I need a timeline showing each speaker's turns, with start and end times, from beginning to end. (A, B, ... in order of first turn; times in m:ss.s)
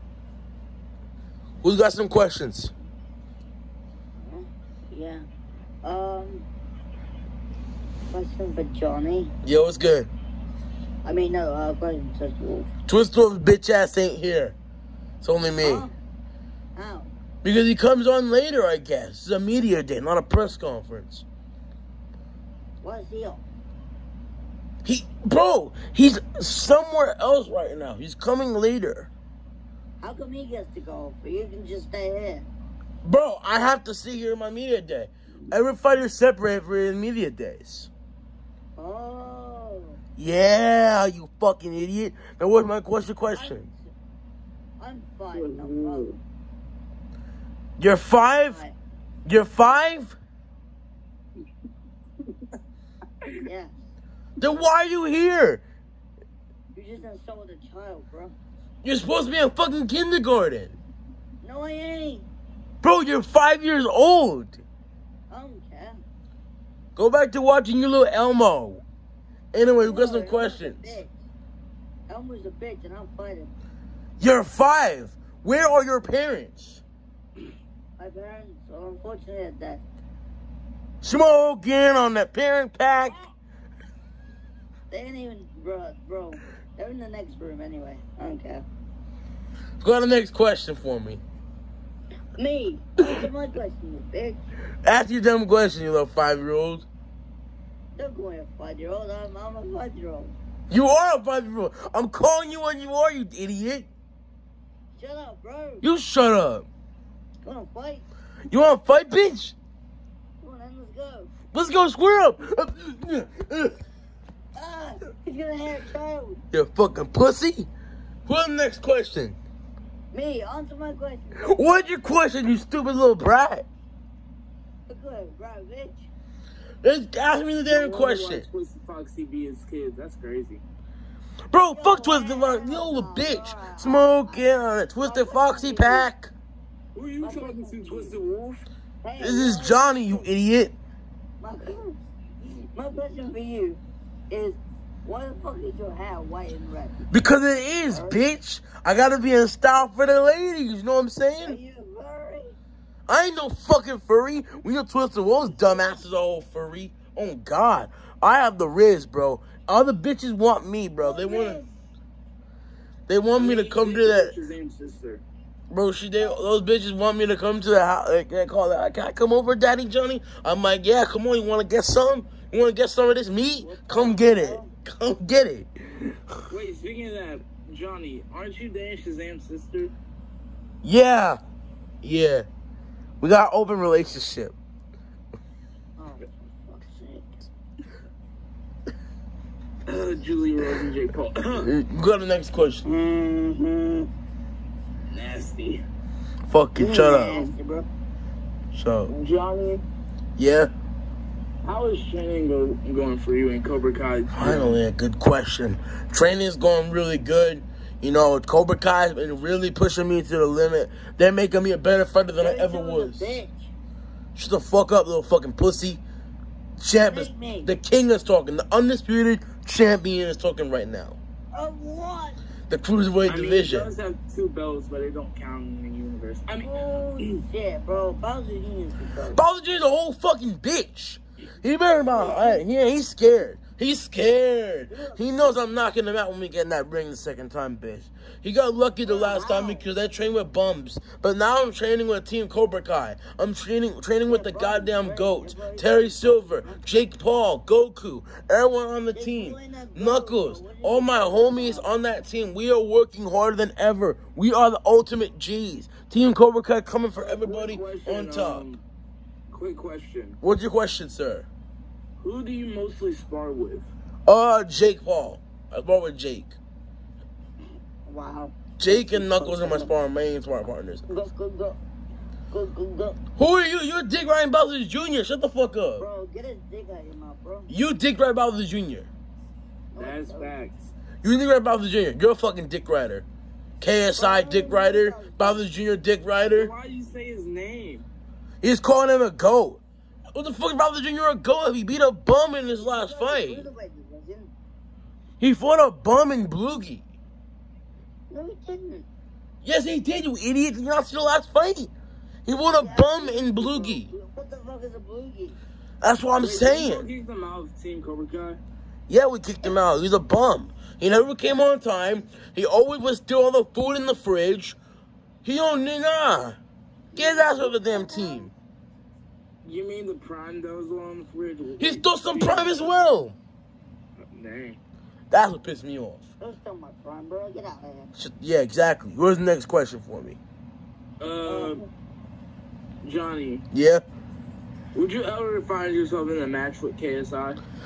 0:01.6-0:02.7 A
0:04.2-0:05.2 B
0:05.8-0:06.4 B
0:08.1-0:09.3 B
0:09.4-0:10.1 A
0:11.0-0:12.7 B
0:12.9-0:14.6 A
0:15.2-0:15.9 A
0:15.6-0:15.9 B
0:16.8-0:17.1 B
0:17.4-0:21.2 A
0:22.8-0:23.4 B
0:24.8-0:29.1 A
0:30.0-0:32.5 B
0:33.0-0:37.9 A
0:38.8-0:40.0 B
0:40.2-0:43.7 A
0:43.3-0:43.9 B
0:44.8-0:46.0 B
0:45.3-0:46.2 C
0:47.8-0:48.6 A
0:48.5-0:48.7 B
0:49.2-0:50.2 A
0:53.4-0:53.8 B
0:54.4-0:55.6 A
0:56.7-0:58.3 B
0:58.8-1:00.8 A
1:01.4-1:02.3 B
1:02.8-1:04.6 A
1:05.3-1:06.0 B
1:07.0-1:08.8 A
1:09.5-1:11.0 A
1:09.6-1:11.1 B
1:12.1-1:13.5 B
1:14.2-1:16.8 A
1:18.0-1:19.8 B
1:21.0-1:23.2 A
1:24.9-1:28.6 B
1:29.8-1:31.2 A
1:32.4-1:34.4 B
1:34.8-1:36.8 A
1:38.0-1:40.3 B
1:40.7-1:43.9 A
1:45.0-1:45.8 B
1:45.8-1:46.6 A
1:47.4-1:48.0 B
1:48.5-1:49.5 A
1:50.4-1:51.3 B
1:51.5-1:53.8 A
1:54.6-1:56.4 B
1:56.5-1:57.7 A
1:58.3-1:59.4 A
2:00.1-2:01.9 B
2:01.4-2:03.6 A
2:04.9-2:06.1 B
2:06.8-2:08.4 A
2:07.7-2:10.6 C
2:11.5-2:16.3 A
2:11.7-2:14.4 B
2:15.0-2:16.1 B
2:16.9-2:18.6 C
2:17.2-2:18.2 B
2:19.0-2:20.3 B
2:19.2-2:20.7 A
2:21.4-2:27.0 B
2:27.1-2:31.6 A
2:27.9-2:28.2 B
2:31.4-2:32.5 B
2:33.1-2:41.6 A
2:41.0-2:41.8 B
2:43.1-2:44.4 A
2:43.3-2:45.2 C
2:45.7-2:55.7 A
2:46.2-2:46.4 B
2:53.6-2:54.7 B
2:56.5-2:59.9 C
3:00.8-3:01.4 A
3:02.0-3:02.5 A
3:03.2-3:04.6 A
3:06.0-3:07.4 B
3:09.9-3:11.7 C
3:11.6-3:12.8 A
3:12.8-3:14.1 B
3:15.1-3:15.8 C
3:16.5-3:17.4 A
3:16.8-3:17.9 B
3:18.7-3:19.1 A
3:19.1-3:19.8 C
3:20.4-3:20.7 A
3:21.6-3:24.8 C
3:24.3-3:33.4 A
3:32.4-3:33.7 B
3:34.4-3:36.0 A
3:36.8-3:41.2 A
3:37.1-3:37.7 B
3:41.5-3:42.4 B
3:42.7-3:43.9 A
3:43.2-3:47.3 C
3:46.6-3:49.4 B
3:49.3-4:18.6 A
3:52.0-3:52.6 B
3:54.9-3:55.6 B
3:59.0-3:59.9 B
4:04.2-4:06.8 B
4:09.1-4:11.9 B
4:17.2-4:18.8 C
4:19.5-4:20.4 C
4:20.4-4:21.5 A
4:22.2-4:23.9 C
4:24.3-4:26.6 A
4:28.1-4:29.9 B
4:28.8-4:31.0 A
4:31.1-4:31.8 B
4:32.5-4:33.2 B
4:33.4-4:36.0 A
4:36.0-4:37.7 B
4:37.7-4:39.1 A
4:39.9-4:40.6 B
4:40.0-4:40.8 C
4:41.2-4:43.2 A
4:43.8-4:46.7 A
4:44.1-4:45.6 B
4:46.4-4:48.0 C
4:48.6-4:49.8 A
4:50.3-4:53.7 A
4:52.8-4:54.5 B
4:55.4-4:57.1 A
4:58.3-4:59.0 B
4:59.6-5:01.9 A
5:02.4-5:04.1 A
5:02.7-5:05.6 B
5:06.0-5:07.1 A
5:06.3-5:08.6 C
5:09.1-5:14.8 A
5:15.4-5:16.6 A
5:17.1-5:18.5 B
5:17.1-5:18.5 A
5:19.6-5:23.0 C
5:21.8-5:23.4 A
5:24.3-5:24.8 C
5:25.3-5:26.2 A
5:26.4-5:28.1 B
5:28.2-5:30.4 A
5:31.2-5:31.8 C
5:31.4-5:31.9 B
5:33.0-5:33.6 C
5:33.7-5:34.0 A
5:34.9-5:37.6 C